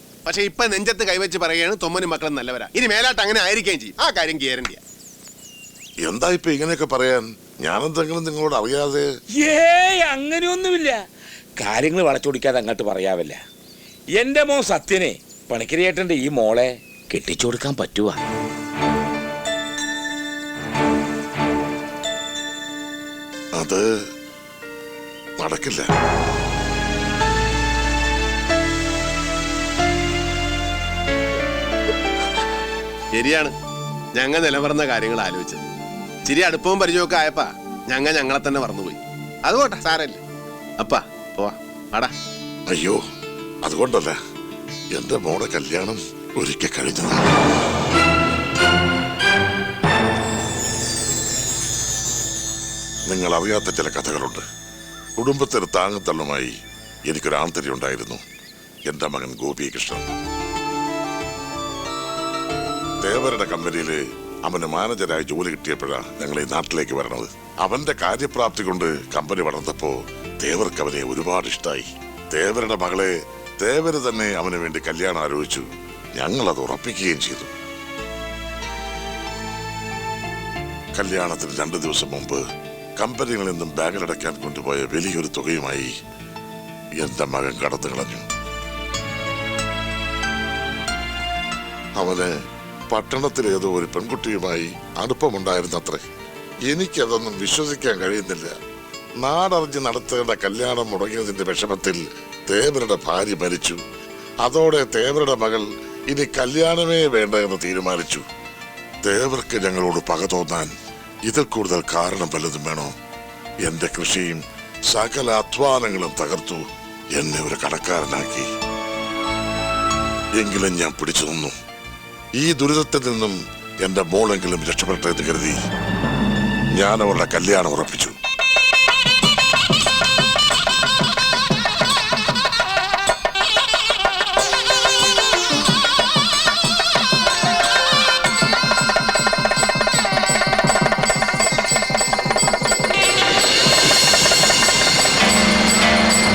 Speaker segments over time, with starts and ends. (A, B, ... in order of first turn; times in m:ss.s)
0:00.2-0:04.8 A
0:06.0-0:09.0 B
0:09.4-0:11.0 C
0:11.6-0:13.4 C
0:14.2-0:18.2 C
0:23.6-0:23.8 B
0:25.4-0:25.9 B
0:33.1-0:33.5 A
0:34.1-0:35.7 A
0:36.2-0:40.2 A
0:40.8-0:42.1 A
0:42.7-0:43.0 B
0:43.6-0:44.2 B
0:44.9-0:47.3 B
0:53.0-0:54.4 B
0:55.2-0:56.5 B
0:57.1-0:58.2 B
0:58.9-1:00.1 B
1:03.0-1:17.5 B
1:21.0-1:22.4 B
1:23.0-1:25.9 B
1:27.0-1:28.2 B
1:32.0-1:32.3 B
1:32.9-1:36.0 B
1:36.7-1:38.5 B
1:39.2-1:43.8 B
1:44.4-1:48.2 B
1:49.0-1:50.7 B
1:51.2-1:52.9 B
1:53.6-1:56.6 B
1:57.1-1:58.5 B
2:00.3-2:01.5 B
2:02.4-2:05.6 B
2:06.8-2:08.2 B